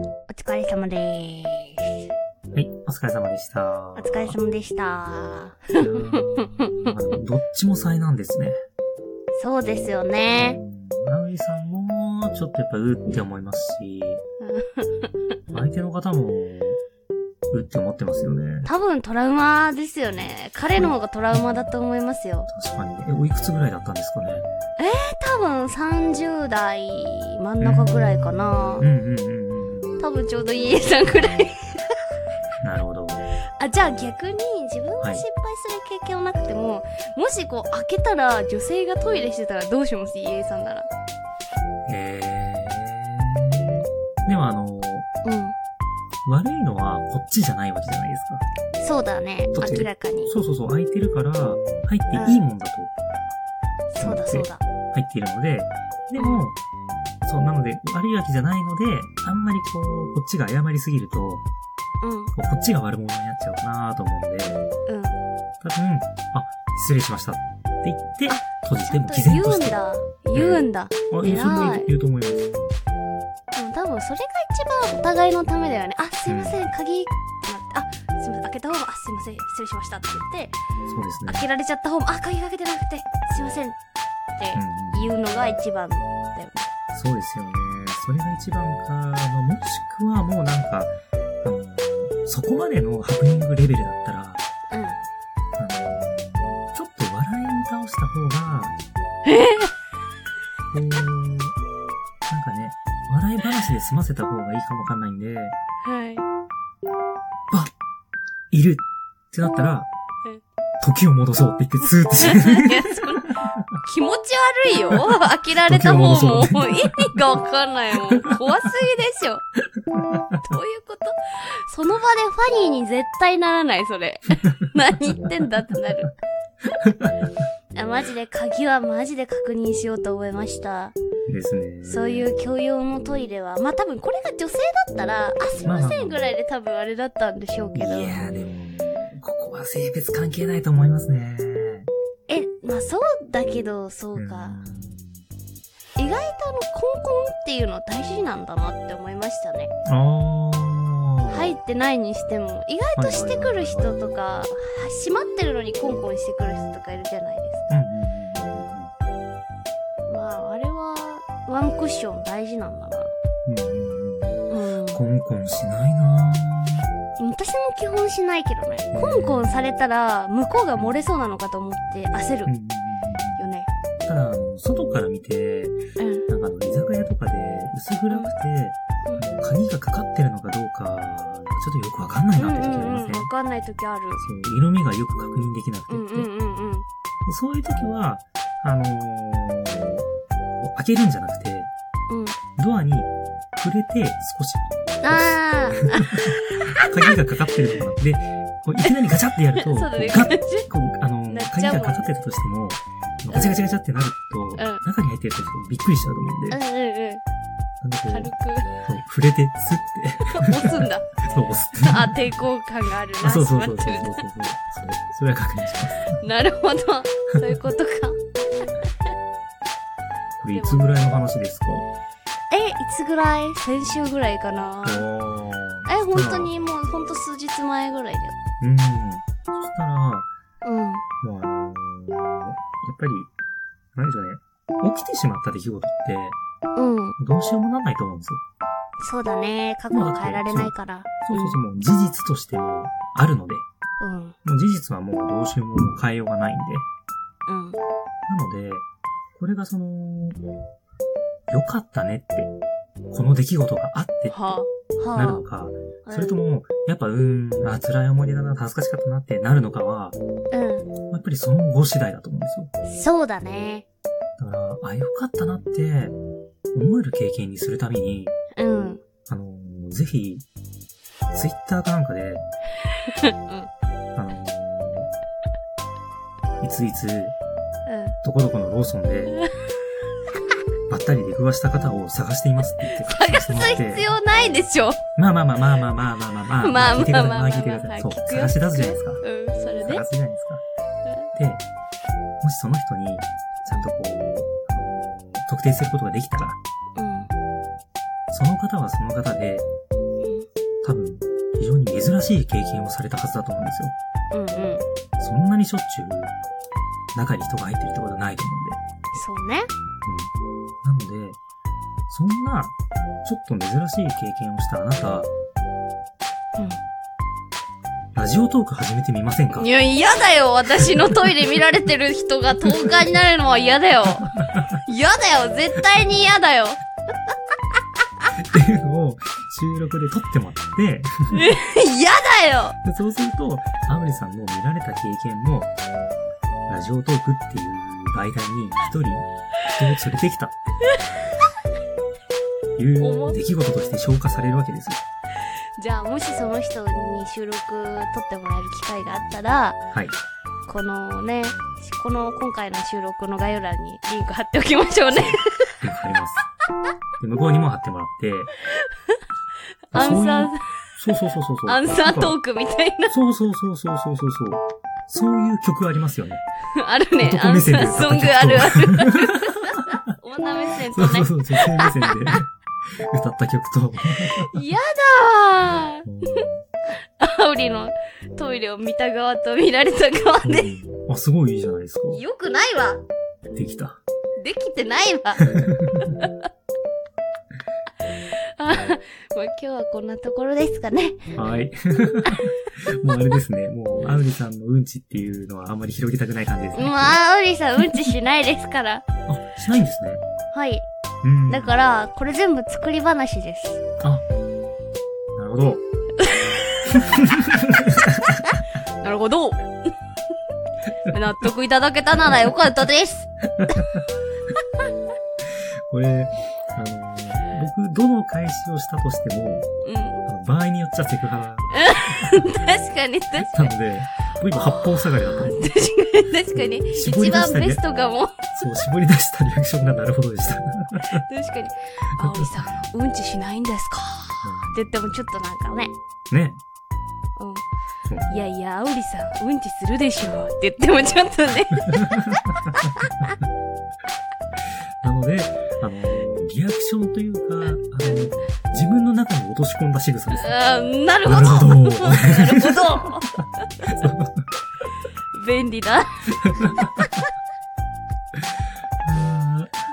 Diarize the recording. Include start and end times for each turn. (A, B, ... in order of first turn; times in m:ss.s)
0:00.3-0:01.9 A
0:02.5-0:04.4 B
0:03.9-0:06.7 A
0:05.8-0:08.6 B
0:09.3-0:10.6 A
0:10.4-0:14.2 B
0:14.4-0:15.2 A
0:15.5-0:16.8 B
0:17.5-0:18.7 B
0:18.6-0:22.5 A
0:22.5-0:24.5 B
0:24.8-0:28.9 A
0:27.6-0:30.0 B
0:30.0-0:31.8 A
0:32.6-0:33.3 B
0:33.6-0:40.9 A
0:35.0-0:35.2 B
0:41.9-0:45.1 B
0:45.2-0:45.5 A
0:46.2-0:48.4 B
0:48.8-0:50.3 A
0:49.5-0:52.9 B
0:52.1-0:52.4 A
0:53.9-0:54.6 A
0:54.0-0:56.6 B
0:56.2-0:56.5 A
0:57.2-1:01.5 B
1:02.0-1:02.3 A
1:02.3-1:04.6 B
1:04.9-1:05.2 A
1:05.6-1:09.8 B
1:08.3-1:11.9 A
1:10.3-1:12.6 B
1:13.5-1:20.6 A
1:16.3-1:16.6 B
1:20.9-1:21.4 B
1:21.3-1:23.8 A
1:24.4-1:26.7 A
1:24.5-1:25.1 B
1:26.9-1:34.4 B
1:34.7-1:35.0 A
1:35.6-1:38.7 B
1:39.2-1:39.7 A
1:40.7-1:41.6 B
1:42.3-1:45.6 B
1:45.8-1:46.2 A
1:48.5-1:49.9 B
1:50.8-1:53.6 B
1:52.2-1:59.4 A
1:55.6-1:57.2 B
2:00.0-2:00.4 B
2:00.4-2:06.1 A
2:06.8-2:07.3 B
2:07.7-2:10.9 A
2:11.3-2:12.3 B
2:11.8-2:18.2 A
2:15.6-2:16.3 B
2:17.7-2:21.9 B
2:22.3-2:24.6 A
2:24.1-2:25.2 B
2:26.0-2:29.7 A
2:29.8-2:31.6 B
2:31.3-2:37.8 A
2:33.0-2:33.9 B
2:37.7-2:38.9 B
2:40.1-2:43.1 A
2:43.4-2:46.9 B
2:44.5-2:45.0 A
2:47.2-2:52.5 A
2:48.9-2:49.6 B
2:50.8-2:51.1 B
2:52.5-2:53.5 B
2:53.4-2:53.7 A
2:54.0-3:03.3 B
2:56.0-2:56.3 A
2:59.0-2:59.3 A
3:02.4-3:04.2 A
3:04.2-3:06.3 B
3:05.9-3:06.8 A
3:07.2-3:10.0 B
3:10.6-3:11.7 B
3:12.1-3:12.4 A
3:12.6-3:26.6 B
3:15.0-3:17.1 A
3:19.6-3:20.7 A
3:21.2-3:22.1 A
3:23.3-3:23.6 A
3:24.6-3:24.8 A
3:26.5-3:27.2 A
3:27.8-3:28.3 B
3:28.1-3:28.7 A
3:28.8-3:32.2 B
3:30.3-3:31.1 A
3:31.8-3:34.2 A
3:33.2-3:36.2 B
3:36.2-3:38.2 A
3:40.4-3:41.9 B
3:40.5-3:40.8 A
3:42.5-3:45.0 A
3:44.8-3:46.5 B
3:45.8-3:48.4 A
3:48.6-3:50.3 B
3:50.6-3:51.0 A
3:51.2-3:53.3 B
3:53.9-3:56.4 B
3:56.8-3:57.2 A
3:57.2-3:58.4 B
3:59.0-4:01.6 A
3:59.9-4:03.6 B
4:04.0-4:04.4 A
4:04.4-4:06.9 B
4:07.5-4:07.8 A
4:08.3-4:10.4 B
4:11.5-4:12.5 B
4:13.1-4:14.4 B
4:14.3-4:15.4 A
4:15.1-4:20.2 B
4:16.0-4:16.4 A
4:20.5-4:20.9 A
4:21.1-4:22.7 B
4:22.8-4:23.8 A
4:24.4-4:26.2 B
4:26.7-4:28.4 B
4:28.6-4:29.0 A
4:29.3-4:30.4 B
4:31.3-4:32.4 B
4:33.1-4:33.7 A
4:34.2-4:35.1 B
4:36.6-4:37.4 B
4:37.9-4:38.2 A
4:38.2-4:39.4 B
4:40.9-4:44.1 B
4:42.9-4:45.0 A
4:45.2-4:49.2 B
4:46.6-4:50.0 A
4:49.8-4:50.6 B
4:51.0-4:51.3 A
4:51.3-4:51.6 B
4:52.4-4:56.6 B
4:57.0-4:57.3 A
4:58.3-4:59.6 B
5:00.8-5:03.9 B
5:04.3-5:04.8 A
5:05.2-5:06.3 B
5:07.1-5:08.8 B
5:09.1-5:09.7 A
5:10.0-5:10.3 B
5:10.8-5:11.4 B
5:12.1-5:15.3 B
5:18.1-5:19.7 B
5:19.5-5:24.3 A
5:24.8-5:26.8 A
5:28.4-5:31.5 B
5:31.3-5:32.8 A
5:32.8-5:35.7 B
5:36.7-5:40.6 B
5:42.8-5:45.0 B
5:43.0-5:43.4 A
5:45.8-5:49.8 A
5:50.7-5:55.8 A
5:55.1-5:56.4 B
5:57.2-5:58.5 B
5:59.9-6:00.6 A
5:59.9-6:02.4 B
6:01.6-6:03.1 A
6:03.1-6:06.4 B
6:06.7-6:12.4 A
6:07.2-6:09.6 B
6:10.9-6:14.6 B
6:14.4-6:16.4 A
6:16.0-6:16.6 B
6:17.2-6:20.7 A
6:20.4-6:22.2 B
6:22.1-6:23.0 A
6:23.5-6:24.0 B
6:24.4-6:25.4 A
6:25.4-6:26.2 B
6:26.1-6:26.3 A
6:28.6-6:31.3 A
6:31.4-6:37.2 B
6:36.7-6:39.0 A
6:39.3-6:40.2 B
6:40.5-6:40.8 A
6:41.2-6:41.7 B
6:41.5-6:43.8 A
6:45.4-6:45.8 B
6:46.9-6:48.4 B
6:49.0-6:49.7 A
6:51.1-6:53.3 A
6:53.6-6:54.0 B
6:55.5-6:59.7 B
6:59.8-7:00.2 A
7:00.2-7:02.5 B
7:01.7-7:03.7 A
7:03.3-7:05.6 B
7:04.5-7:08.3 A
7:06.5-7:07.8 B
7:08.5-7:11.2 B
7:11.2-7:16.0 A
7:12.2-7:12.5 B
7:14.4-7:14.8 B
7:16.3-7:16.6 B
7:17.4-7:17.6 A
7:18.0-7:18.3 B
7:18.3-7:22.3 A
7:21.5-7:22.9 B
7:25.0-7:30.6 B
7:30.3-7:33.7 A
7:31.2-7:33.0 B
7:33.8-7:34.4 B
7:35.3-7:37.2 A
7:36.4-7:36.8 B
7:39.0-7:39.7 B